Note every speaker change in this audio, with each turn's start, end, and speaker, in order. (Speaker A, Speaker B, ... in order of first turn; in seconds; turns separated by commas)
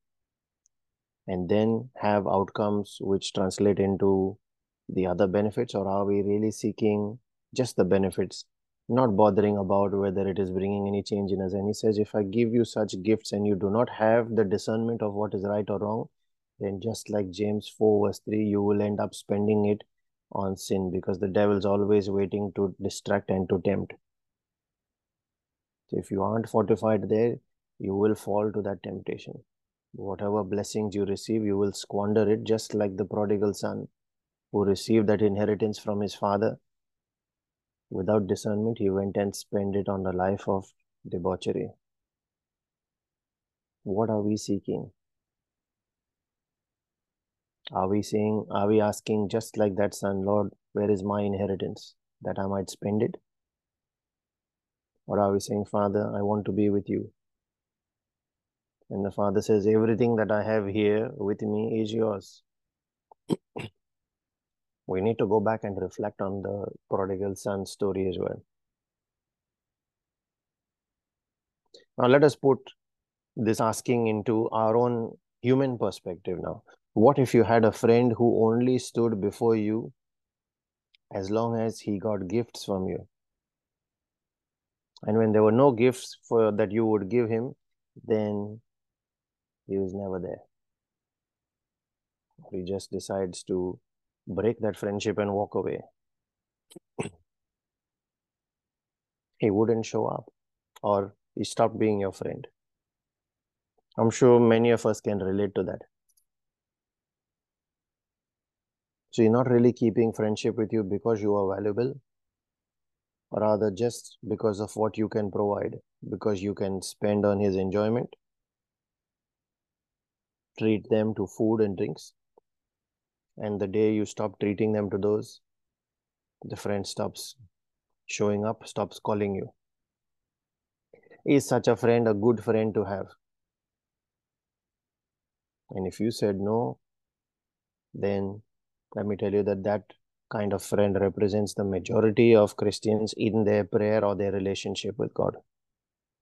Speaker A: 1.3-24.0, Speaker A: 25.9-29.4, Speaker A: 29.9-33.9, Speaker A: 34.5-36.6, Speaker A: 37.9-41.7, Speaker A: 43.9-44.9, Speaker A: 47.7-53.2, Speaker A: 55.1-57.1, Speaker A: 58.9-62.4, Speaker A: 64.9-68.4, Speaker A: 72.0-72.7, Speaker A: 73.4-79.9, Speaker A: 81.1-83.1, Speaker A: 85.1-88.6, Speaker A: 89.7-90.4, Speaker A: 92.5-95.8, Speaker A: 99.4-100.3, Speaker A: 100.8-102.5, Speaker A: 104.0-105.9, Speaker A: 109.1-112.0, Speaker A: 113.3-118.2, Speaker A: 120.6-122.2, Speaker A: 123.4-125.4, Speaker A: 126.5-127.4, Speaker A: 128.1-129.5, Speaker A: 131.3-133.1, Speaker A: 135.7-136.8, Speaker A: 137.9-138.4, Speaker A: 139.0-145.4